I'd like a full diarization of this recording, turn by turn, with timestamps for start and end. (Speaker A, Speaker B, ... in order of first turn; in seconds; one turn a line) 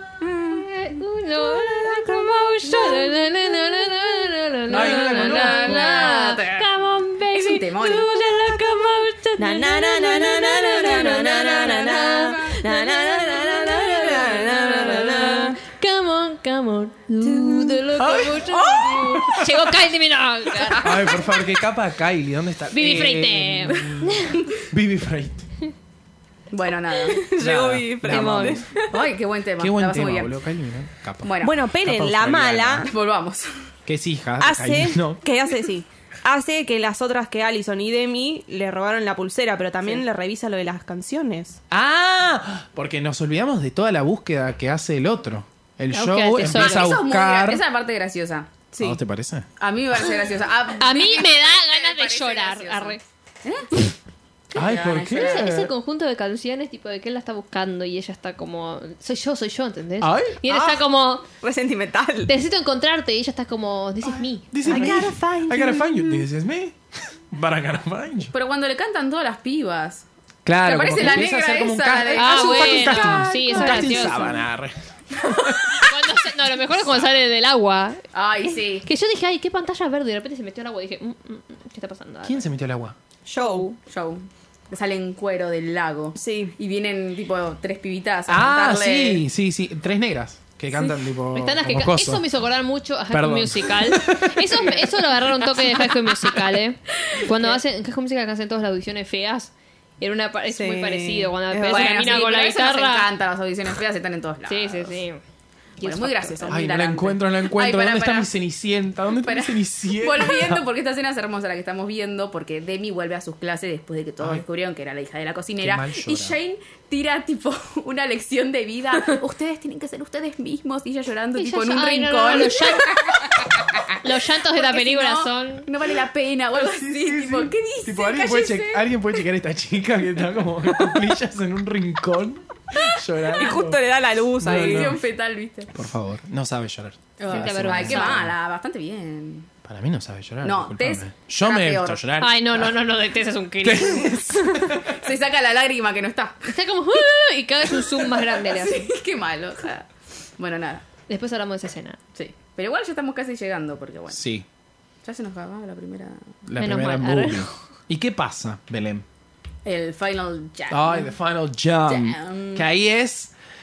Speaker A: 0.2-0.7
Speaker B: 0.4-21.3
Speaker A: 2.8-3.1
Speaker C: 4.7-6.0
Speaker A: 4.7-6.7
Speaker A: 7.3-8.1
Speaker D: 9.4-15.6
Speaker A: 11.8-12.6
Speaker D: 17.2-17.9
Speaker C: 17.9-19.6
Speaker D: 18.5-19.2
Speaker A: 20.6-21.2
Speaker C: 20.7-25.5
Speaker B: 22.7-24.4
Speaker A: 26.5-27.2
Speaker D: 27.1-29.1
Speaker C: 27.4-28.7
Speaker B: 28.0-28.6
Speaker A: 28.8-30.3
Speaker C: 29.6-32.9
Speaker A: 31.2-31.6
Speaker D: 31.4-32.9
Speaker A: 32.8-33.5
Speaker C: 33.9-35.2
Speaker D: 34.4-41.6
Speaker C: 41.7-47.6
Speaker B: 45.9-47.0
Speaker A: 46.4-48.5
Speaker D: 48.7-49.0
Speaker C: 48.8-49.5
Speaker A: 49.6-53.7
Speaker B: 50.8-53.0
Speaker C: 54.5-55.7
Speaker A: 54.5-55.5
Speaker B: 55.0-61.2
Speaker C: 60.0-60.8
Speaker D: 61.4-62.3
Speaker B: 62.3-65.0
Speaker C: 64.1-68.3
Speaker D: 64.6-66.2
Speaker A: 68.3-70.0
Speaker C: 70.5-75.9
Speaker A: 70.6-73.6
Speaker B: 72.1-74.4
Speaker D: 72.7-74.1
Speaker B: 75.7-82.4
Speaker A: 78.1-78.8
Speaker C: 82.2-82.9
Speaker D: 83.2-83.7
Speaker B: 83.4-83.7
Speaker A: 83.9-89.2
Speaker D: 86.2-86.5
Speaker C: 88.3-92.2
Speaker B: 91.3-103.1
Speaker C: 93.1-94.7
Speaker A: 97.1-97.6
Speaker D: 100.5-102.1
Speaker A: 101.7-105.0
Speaker B: 104.5-105.2
Speaker B: 105.8-106.5
Speaker A: 105.8-108.3
Speaker C: 106.4-110.7
Speaker A: 109.2-124.0
Speaker C: 115.6-116.3
Speaker B: 121.3-123.2
Speaker B: 124.0-125.7
Speaker A: 124.5-128.9
Speaker C: 126.5-133.8
Speaker D: 133.3-134.9
Speaker C: 134.4-135.0
Speaker A: 134.4-135.7
Speaker C: 135.7-138.3
Speaker A: 137.2-139.5
Speaker B: 137.3-138.2
Speaker C: 139.6-142.7
Speaker A: 140.4-142.0
Speaker B: 142.2-144.7
Speaker C: 143.6-144.9
Speaker A: 144.9-146.5
Speaker B: 146.5-148.9
Speaker A: 147.7-149.9
Speaker A: 150.4-150.8
Speaker B: 151.1-152.0
Speaker A: 152.1-154.2
Speaker C: 154.1-154.4
Speaker A: 155.0-156.2
Speaker C: 156.4-159.0
Speaker B: 156.6-157.6
Speaker A: 159.6-161.1
Speaker C: 160.7-163.3
Speaker A: 161.9-162.7